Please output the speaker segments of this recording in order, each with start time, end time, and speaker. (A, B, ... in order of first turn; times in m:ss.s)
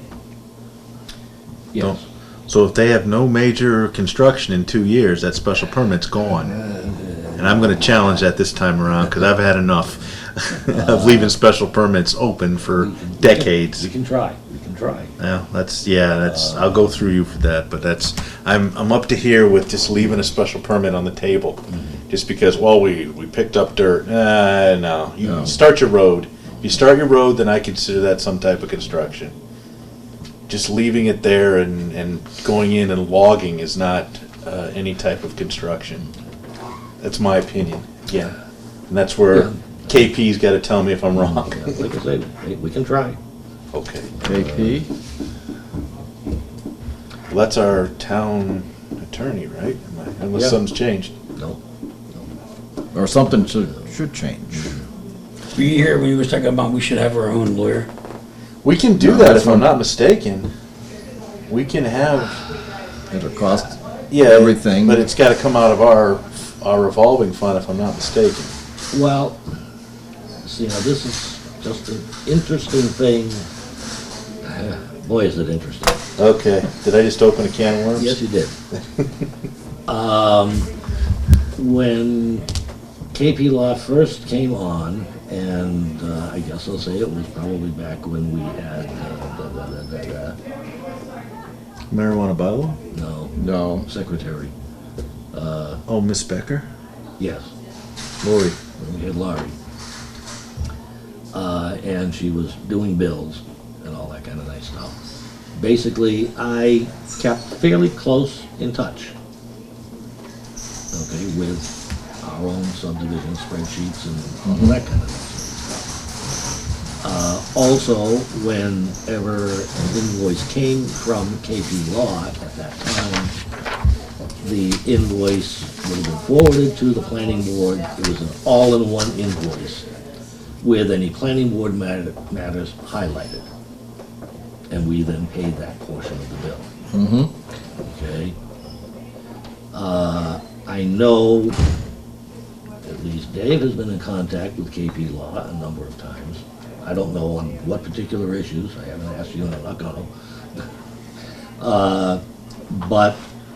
0:01.8-0:06.5 A
0:06.4-0:08.3 B
0:07.4-0:13.9 A
0:10.7-0:11.4 B
0:12.7-0:15.1 B
0:15.2-0:29.3 A
0:16.2-0:16.9 B
0:21.7-0:22.0 B
0:25.2-0:25.6 C
0:30.5-0:36.1 A
0:37.0-0:38.3 A
0:38.9-0:41.8 A
0:39.3-0:39.6 B
0:41.1-0:43.2 B
0:43.7-0:44.2 A
0:44.2-0:44.8 B
0:44.2-0:44.9 C
0:47.3-0:51.1 A
0:50.3-0:50.6 B
0:51.3-0:51.6 B
0:52.9-0:54.8 C
0:55.5-0:57.9 D
0:58.6-1:00.5 A
0:59.0-0:59.8 C
1:01.5-1:02.4 A
1:03.1-1:05.0 C
1:04.1-1:08.5 A
1:08.9-1:09.4 B
1:10.4-1:13.5 B
1:14.4-1:16.0 B
1:16.2-1:18.2 A
1:18.0-1:18.5 B
1:19.9-1:20.7 B
1:21.6-1:22.5 B
1:23.1-1:30.4 B
1:31.9-1:32.8 A
1:32.9-1:34.5 B
1:33.4-1:33.8 C
1:35.3-1:35.8 B
1:35.9-1:36.7 A
1:37.2-1:37.5 B
1:38.2-1:38.6 A
1:38.8-1:39.5 B
1:41.3-1:45.0 B
1:45.6-1:49.1 B
1:50.9-1:55.8 B
1:54.4-1:54.7 C
1:57.0-2:03.3 B
2:04.4-2:09.9 B
2:10.6-2:13.5 B
2:14.7-2:16.7 B
2:16.9-2:17.3 C
2:17.8-2:18.4 B
2:19.7-2:21.6 B
2:22.8-2:30.6 B
2:31.6-2:33.2 B